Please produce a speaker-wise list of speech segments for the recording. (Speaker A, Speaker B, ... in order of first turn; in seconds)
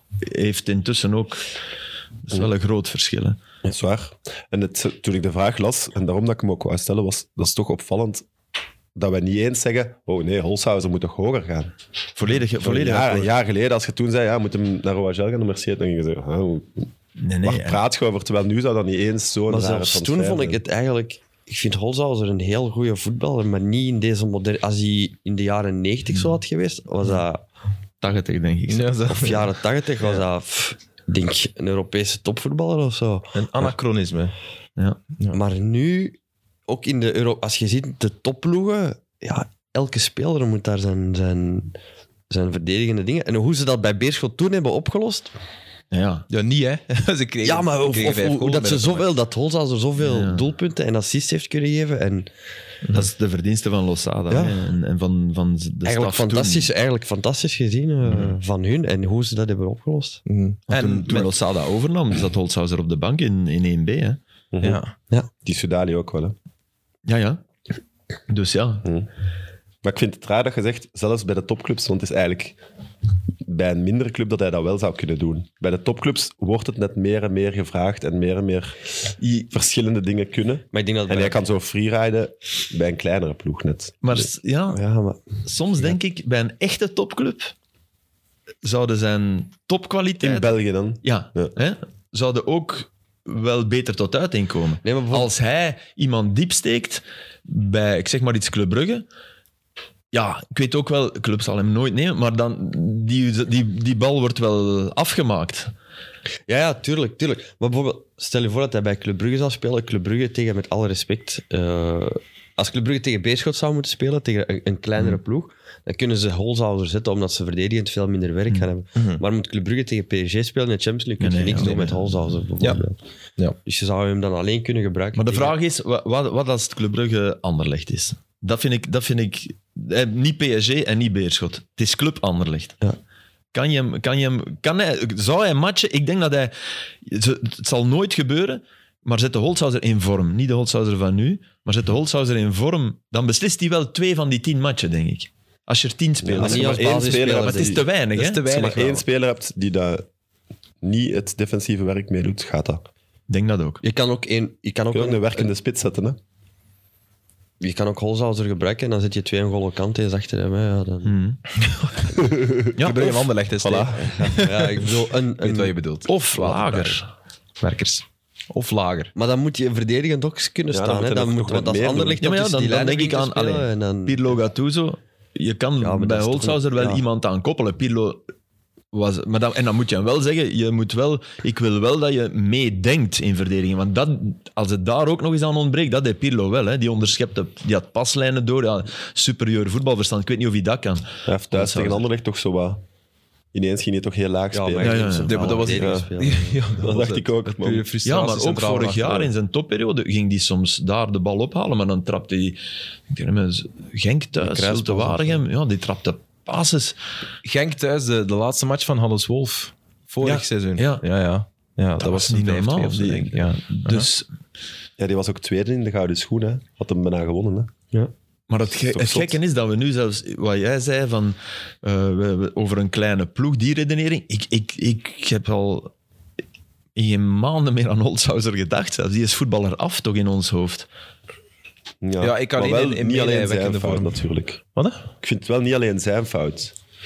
Speaker A: 0.2-1.4, 2.3-3.4, 12.2-13.3, 17.2-17.8, 28.0-28.9, 45.9-46.3, 50.0-50.5, 52.9-56.7, 60.7-64.2, 67.0-67.4, 68.3-68.8, 79.2-79.5, 84.0-84.8, 85.4-87.5, 88.6-99.0, 100.1-105.7, 121.2-122.3, 125.2-132.8, 133.5-136.5, 137.0-148.4, 153.3-153.8, 161.0-161.4, 162.7-163.1, 166.1-167.1, 172.2-178.2, 178.9-192.0, 194.8-195.6, 198.0-207.0, 210.2-211.0, 212.0-214.3, 218.5-225.9, 226.9-230.9
Speaker B: 3.6-8.2, 8.9-11.7, 12.6-16.9, 17.4-20.6, 64.5-64.8, 65.4-66.3, 69.8-72.6, 73.4-78.8, 79.5-84.3, 90.2-91.5, 146.2-147.8, 148.4-150.1, 150.8-152.8, 154.9-156.2, 162.2-163.0, 163.6-164.0, 170.7-172.2, 191.2-192.8, 193.5-196.1, 196.8-197.9, 215.0-217.7, 218.8-219.4, 232.0-234.6, 235.2-236.7
Speaker C: 19.5-27.4, 29.1-33.4, 35.3-36.1, 36.7-41.8, 42.3-45.3, 47.4-52.3, 54.3-54.6, 55.9-60.2, 80.7-81.4, 84.7-85.2, 94.8-95.3, 106.5-123.0, 123.6-125.5, 146.3-147.8, 153.8-155.5, 157.6-161.1, 164.0-165.7, 169.2-174.3, 175.8-177.0, 194.5-196.6
Speaker D: 28.7-29.5, 33.3-34.3, 46.3-49.0, 60.2-61.3, 64.6-64.9, 119.0-119.2, 121.6-121.9, 148.1-149.0, 161.6-167.0, 167.6-169.1, 195.2-199.3, 204.4-205.4, 207.4-214.1, 232.2-234.2, 234.7-235.0